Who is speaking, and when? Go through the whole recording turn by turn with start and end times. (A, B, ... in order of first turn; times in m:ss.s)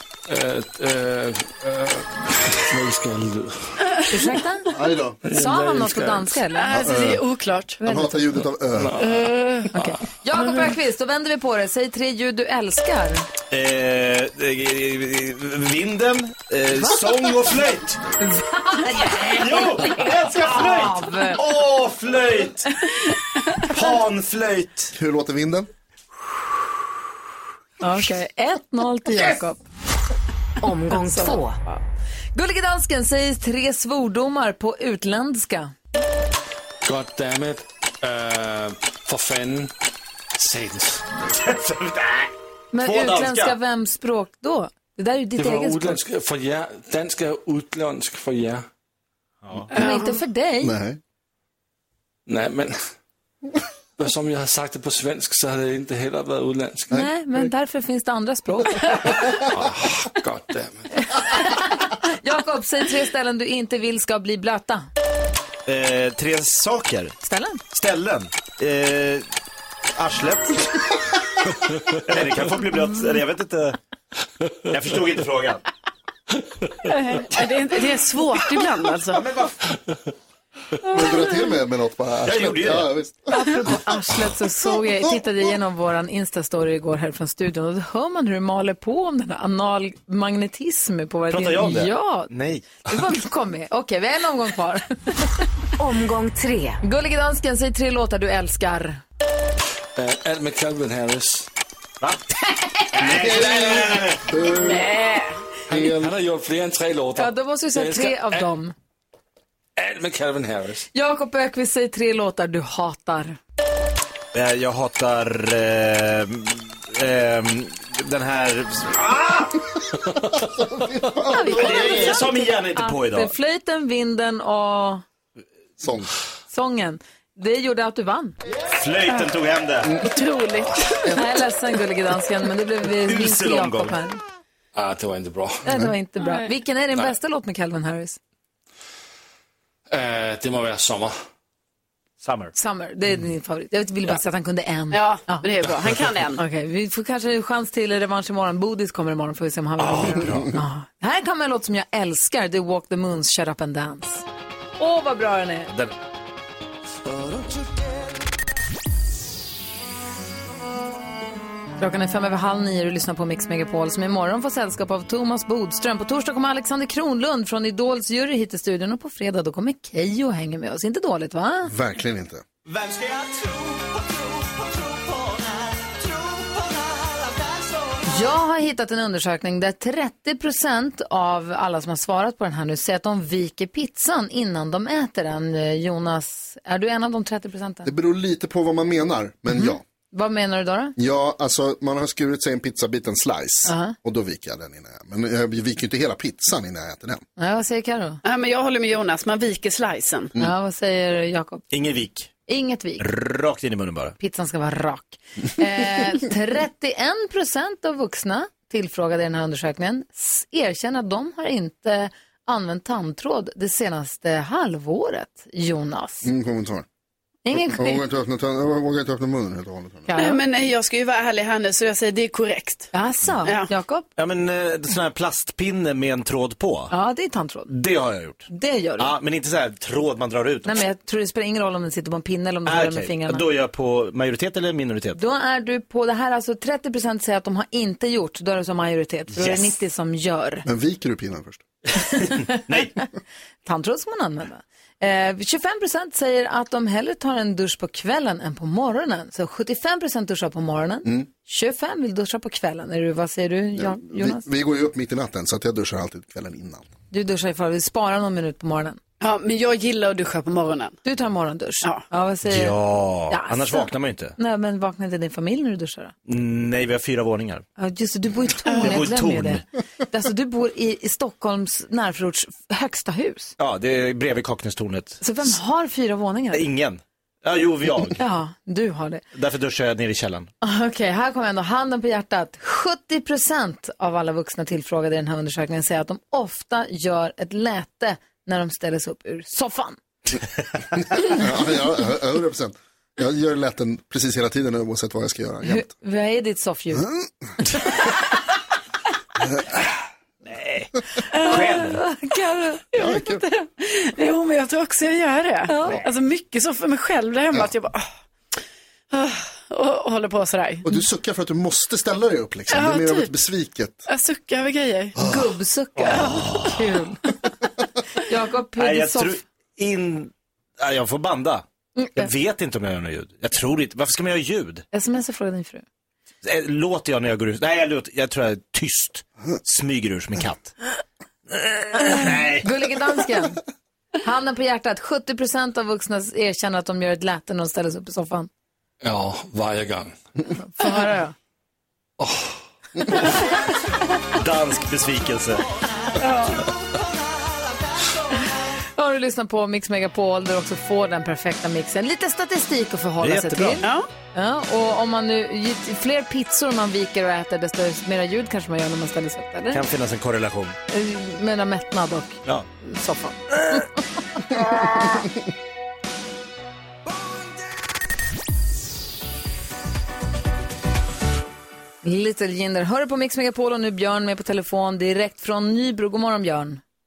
0:00.3-0:04.0 A
0:04.1-0:04.7 B
0:04.7-0:05.2 C
0:05.2-0:06.5 A
0:05.3-0:06.8 B
0:06.6-0:07.8 D
0:06.7-0:07.2 C
0:07.8-0:08.2 B
0:07.8-0:08.9 C
0:08.7-0:10.0 A
0:09.0-0:09.7 D
0:09.7-0:13.3 B
0:13.5-0:18.0 E
0:18.2-0:21.4 B
0:19.0-0:22.7 E
0:23.6-0:24.9 E
0:24.9-0:25.7 C
0:27.8-0:29.6 B
0:30.6-0:31.5 F
0:30.9-0:31.8 B
0:32.4-0:35.7 B
0:36.8-0:39.7 A
0:40.4-0:41.2 A
0:41.3-0:43.6 E
0:42.7-0:46.0 B
0:45.4-0:48.7 A
0:49.4-0:49.7 E
0:49.7-0:50.2 D
0:49.7-0:50.8 B
0:50.6-0:51.0 C
0:52.3-0:52.8 A
0:54.0-0:57.0 A
0:56.9-0:59.3 B
0:59.3-1:01.2 A
1:01.1-1:04.9 B
1:05.7-1:07.2 E
1:07.2-1:07.6 B
1:07.7-1:09.3 E
1:10.0-1:10.9 E
1:12.0-1:13.8 E
1:14.7-1:15.6 E
1:16.9-1:19.2 D
1:19.1-1:19.6 E
1:20.8-1:23.4 C
1:22.2-1:22.9 E
1:23.3-1:35.5 B
1:31.3-1:32.8 E
1:35.8-1:36.8 F
1:36.8-1:39.0 B
1:40.0-1:41.5 A
1:42.0-1:42.3 E
1:42.9-1:44.2 E
1:43.0-1:44.9 C
1:44.5-1:45.4 D
1:45.7-1:48.5 A
1:45.7-1:46.1 C
1:47.2-1:48.7 B
1:49.8-1:50.9 A
1:50.9-1:53.4 B
1:54.3-1:59.7 E
2:00.4-2:02.2 C
2:01.3-2:05.0 B
2:01.4-2:03.3 E
2:05.8-2:06.1 C
2:06.5-2:08.4 B
2:08.7-2:10.0 E
2:10.0-2:11.1 D
2:11.1-2:14.2 B
2:13.1-2:14.0 E
2:14.7-2:15.6 A
2:15.6-2:18.2 B
2:15.7-2:15.9 C
2:19.9-2:21.2 A
2:22.2-2:22.5 E
2:22.6-2:25.5 B
2:24.9-2:26.4 D
2:26.4-2:34.2 B
2:29.8-2:30.6 E
2:34.8-2:35.7 B
2:41.8-2:51.7 B
2:51.7-2:52.4 C
2:52.7-2:53.6 E
2:54.7-2:56.5 E
2:58.1-3:07.9 B
3:07.8-3:09.8 C
3:09.5-3:11.0 B
3:11.0-3:17.2 C
3:13.7-3:14.0 B
3:17.4-3:18.2 B
3:18.2-3:20.3 D
3:20.4-3:21.7 B
3:21.7-3:22.3 E
3:22.5-3:23.0 B
3:23.0-3:24.2 E
3:24.2-3:36.3 B
3:36.2-3:36.9 C
3:37.4-3:38.0 B
3:37.5-3:40.1 C
3:40.1-3:40.4 B
3:40.2-3:42.9 D
3:42.9-3:44.1 B
3:44.2-3:46.9 E
3:46.9-3:47.7 B
3:47.7-3:50.8 E
3:48.5-3:49.1 B
3:50.6-3:53.4 B
3:52.7-3:55.2 E
3:55.2-4:00.7 B
3:59.4-3:59.7 E
4:00.7-4:01.6 C
4:02.0-4:03.1 B
4:02.6-4:03.0 E
4:03.6-4:14.4 B
4:13.8-4:16.9 C
4:17.1-4:19.0 B
4:19.2-4:21.0 D
4:21.0-4:22.8 B
4:22.4-4:24.4 E
4:23.3-4:26.1 B
4:26.3-4:27.7 E
4:27.8-4:33.6 B
4:28.7-4:29.6 E
4:33.6-4:35.2 E
4:35.2-4:36.6 B
4:36.5-4:38.2 E
4:38.2-4:39.2 B
4:39.4-4:40.5 E
4:40.6-4:50.0 B
4:51.3-4:55.9 C
4:55.6-4:57.1 B
4:56.9-4:57.6 C
4:59.4-4:59.8 C
5:00.5-5:02.0 E
5:01.3-5:03.7 B
5:03.0-5:03.4 C
5:03.8-5:08.1 D
5:05.7-5:06.0 B
5:09.1-5:10.8 D
5:10.8-5:14.1 C
5:12.7-5:13.3 D
5:14.1-5:15.2 D
5:15.2-5:15.5 C
5:15.2-5:17.3 B
5:16.0-5:16.8 E
5:16.1-5:16.7 D
5:18.2-5:19.3 B
5:18.8-5:21.6 E
5:22.0-5:22.3 B
5:22.2-5:24.8 E
5:24.9-5:25.8 B
5:26.4-5:30.7 E
5:31.5-5:32.7 E
5:32.6-5:33.6 B
5:34.2-5:38.5 B
5:39.0-5:40.1 A
5:40.5-5:41.4 B
5:40.8-5:41.2 D
5:42.2-5:42.6 A
5:44.3-5:45.7 E
5:46.2-5:46.7 D
5:49.0-5:59.8 B
5:53.2-5:53.9 E
5:53.8-5:54.1 D
5:59.7-6:00.8 E
6:00.9-6:03.9 B
6:03.6-6:03.8 E
6:12.0-6:16.8 B